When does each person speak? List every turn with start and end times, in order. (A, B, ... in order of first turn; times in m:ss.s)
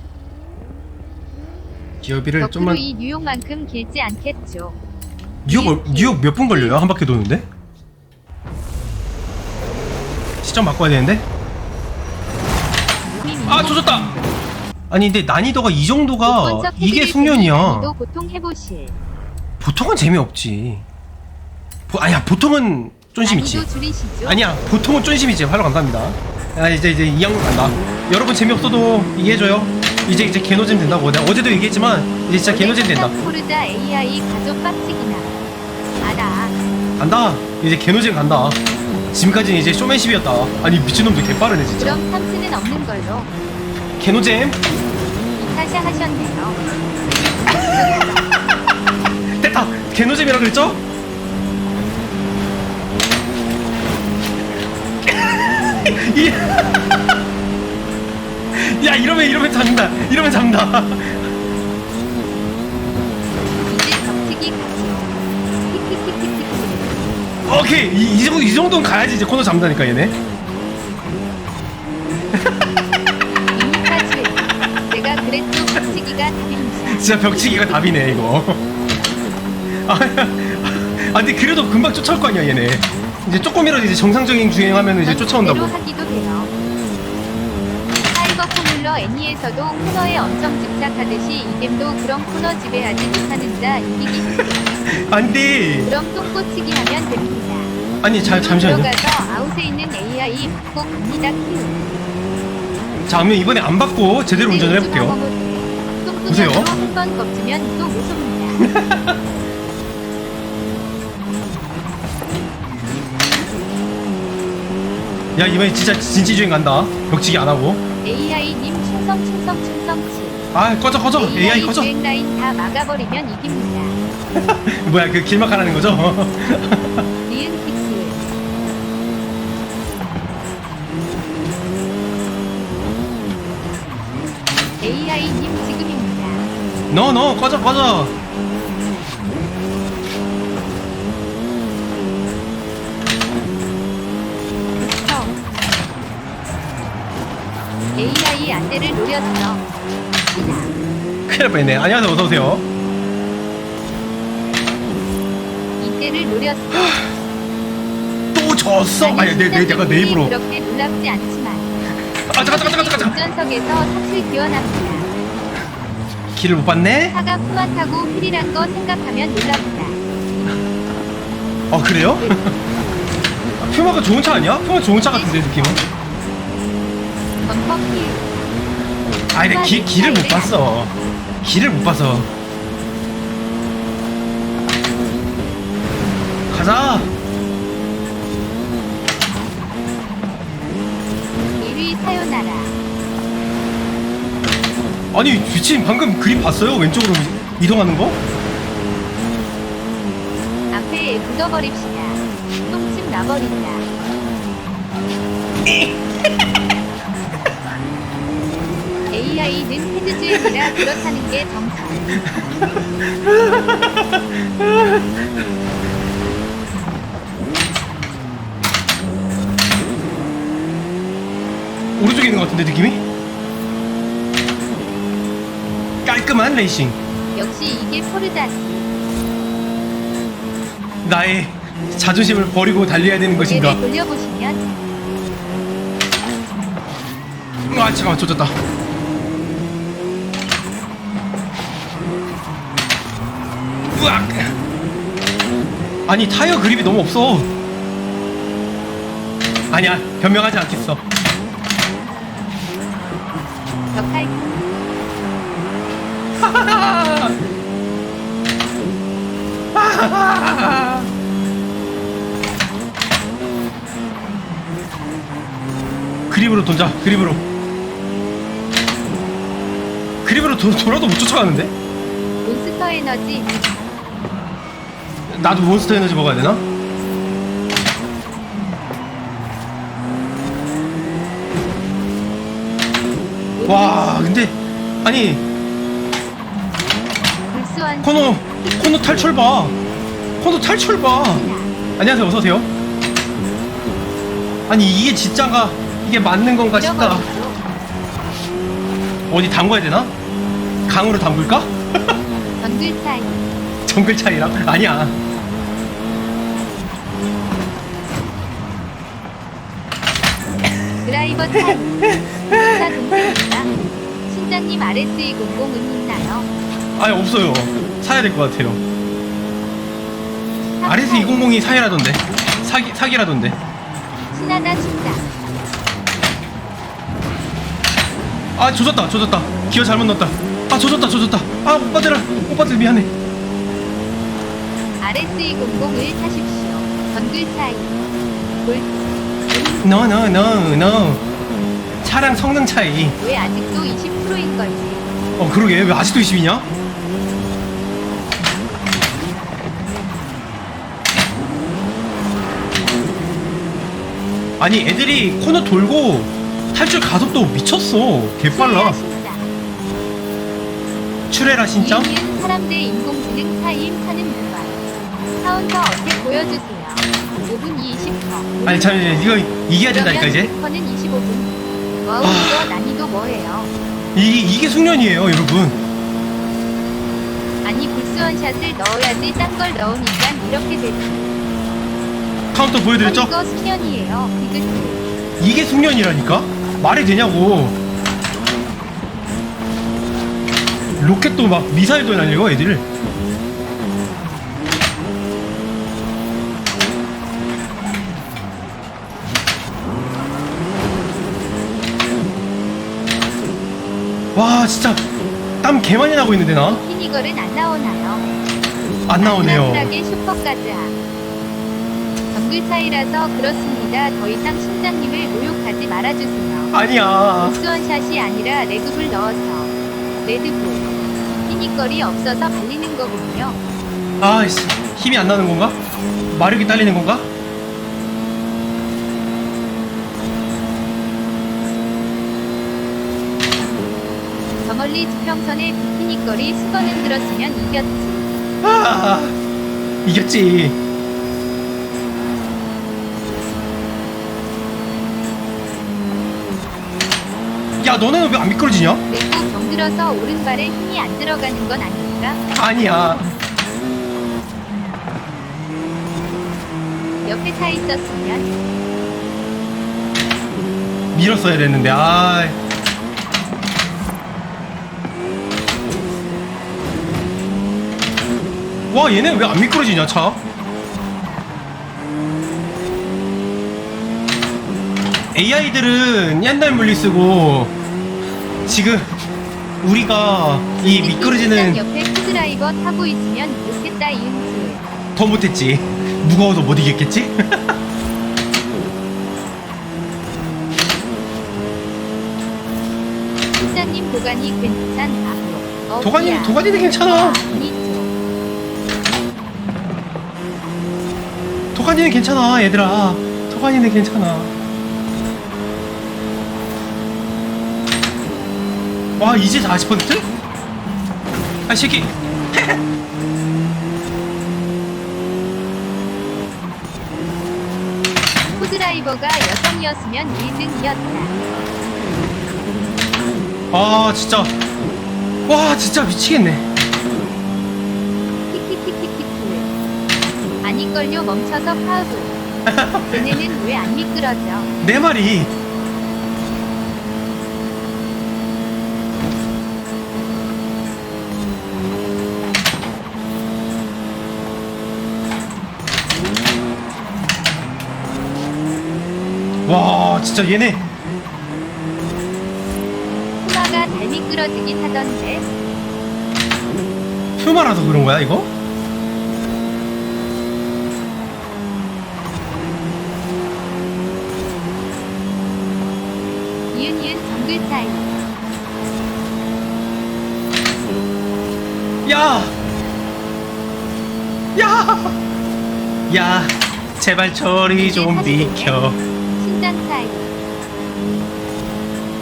0:02.0-0:02.8 A
0:02.4-0:04.8 B
0:05.5-0:07.5 A
0:05.5-0:06.8 B
0:10.4-0:11.3 A
0:13.0-0:14.5 B
0:13.5-0:14.2 A
0:14.9-0:17.9 A
0:16.2-0:19.0 B
0:19.6-0:20.8 A
0:21.9-0:23.7 A
0:23.2-0:24.4 B
0:24.2-0:33.2 A
0:30.4-0:31.0 B
0:32.4-0:35.3 B
0:36.0-0:36.6 B
0:37.0-0:38.6 A
0:39.1-0:42.0 A
0:41.8-0:43.3 B
0:44.0-0:44.6 A
0:45.4-0:46.6 B
0:47.7-0:48.3 B
0:49.4-0:50.8 A
0:55.0-0:56.9 A
0:58.5-1:01.3 A
1:03.7-1:05.1 B
1:05.7-1:07.1 B
1:07.5-1:10.2 A
1:12.4-1:12.7 A
1:13.5-1:17.8 B
1:16.9-1:18.6 A
1:19.8-1:25.7 A
1:24.8-1:26.5 B
1:28.1-1:34.6 B
1:34.3-1:35.9 A
1:35.8-1:42.0 B
1:38.0-1:38.9 A
1:43.1-1:45.2 A
1:44.5-1:48.7 B
1:46.3-1:46.7 A
1:48.6-1:49.2 A
1:55.4-1:57.8 A
1:58.0-2:00.5 B
2:00.5-2:01.9 A
2:01.2-2:04.0 B
2:04.3-2:07.1 A
2:07.3-2:08.2 B
2:14.8-2:16.4 B
2:16.9-2:18.1 A
2:24.8-2:25.3 B
2:28.0-2:29.6 B
2:30.3-2:30.7 B
2:31.3-2:32.6 A
2:35.8-2:37.0 B
2:36.7-2:37.0 A
2:38.3-2:40.3 A
2:39.0-2:41.7 B
2:42.3-2:43.2 A
2:42.4-2:45.1 B
2:46.3-2:47.2 A
2:47.1-2:50.0 B
2:51.7-2:52.5 A
2:52.2-2:52.5 B
2:53.6-2:55.8 A
2:55.1-2:55.9 B
2:57.4-2:58.3 B
2:59.3-3:00.9 A
2:59.4-3:00.6 B
3:01.4-3:02.3 A
3:06.5-3:07.1 A
3:11.6-3:12.7 B
3:15.1-3:18.2 A
3:20.7-3:23.9 B
3:25.7-3:26.0 A
3:29.1-3:32.1 B
3:30.3-3:30.8 A
3:32.3-3:35.3 A
3:42.0-3:43.0 A
3:46.0-3:47.0 A
3:47.4-3:48.9 B
3:51.0-3:53.8 A
3:53.4-3:54.8 B
3:57.7-3:58.5 A
4:03.9-4:04.5 A
4:06.1-4:07.5 A
4:09.7-4:11.0 A
4:13.9-4:14.6 B
4:16.4-4:17.4 A
4:19.7-4:21.1 A
4:26.3-4:27.4 A
4:30.2-4:31.7 A
4:32.4-4:33.7 B
4:35.3-4:36.6 A
4:43.6-4:44.3 B
4:43.7-4:45.5 A
4:47.5-4:48.8 B
4:48.0-4:49.8 A
4:50.4-4:51.4 A
4:51.1-4:51.7 B
4:52.0-4:52.7 A
4:54.7-4:57.2 A
4:56.7-4:57.6 B
4:59.3-5:00.1 A
5:00.9-5:01.7 A
5:02.6-5:03.4 B
5:03.9-5:05.2 A
5:11.0-5:13.7 B
5:11.6-5:13.4 A
5:14.3-5:16.5 B
5:17.0-5:18.8 A
5:20.8-5:21.8 B
5:20.8-5:23.6 A
5:24.3-5:25.3 B
5:28.6-5:33.1 A
5:35.0-5:38.0 B
5:38.6-5:40.1 B
5:39.8-5:41.2 A
5:42.0-5:43.2 A
5:43.2-5:45.1 B
5:45.4-5:46.7 A
5:54.6-5:59.0 A
5:58.5-5:59.5 B
6:01.3-6:02.1 A
6:01.8-6:04.8 B
6:05.4-6:09.0 B
6:08.6-6:10.5 A
6:09.9-6:13.7 B
6:12.2-6:12.7 A
6:14.2-6:15.8 A
6:17.6-6:21.4 B
6:22.5-6:23.3 A
6:23.0-6:25.0 B
6:25.4-6:27.8 A
6:31.0-6:32.9 A
6:44.4-6:45.0 A
6:45.6-6:46.8 A
6:46.6-6:48.3 B
6:49.1-6:49.9 A
6:49.2-6:51.0 B
6:52.3-6:56.7 B
6:56.7-6:57.6 A
6:57.4-7:03.6 B
7:04.2-7:05.8 A
7:06.3-7:07.3 A
7:14.6-7:18.4 B
7:18.6-7:19.4 A
7:20.0-7:20.8 A
7:27.8-7:29.0 A
7:29.1-7:32.4 B
7:32.5-7:33.3 A
7:37.2-7:38.5 B
7:41.1-7:42.6 A
7:48.9-7:50.4 A
7:55.3-7:57.8 A
7:58.7-7:59.1 A
7:59.8-8:01.8 A
8:00.8-8:04.8 B
8:05.2-8:07.8 A
8:13.6-8:18.1 B
8:16.0-8:17.4 A
8:21.8-8:24.5 A
8:29.2-8:30.3 A
8:31.7-8:32.8 A
8:38.6-8:41.4 B
8:43.7-8:44.6 A
8:45.5-8:46.7 A
8:48.5-8:49.7 B
8:50.6-8:52.4 B
8:52.7-8:53.4 A
8:53.1-8:54.7 B
8:54.8-8:55.5 A
9:09.7-9:10.9 A
9:13.4-9:15.5 B
9:17.4-9:18.5 A
9:26.7-9:28.1 B
9:32.0-9:32.5 A
9:34.6-9:35.2 A
9:36.1-9:39.0 A
9:37.8-9:38.8 B
9:39.4-9:40.3 B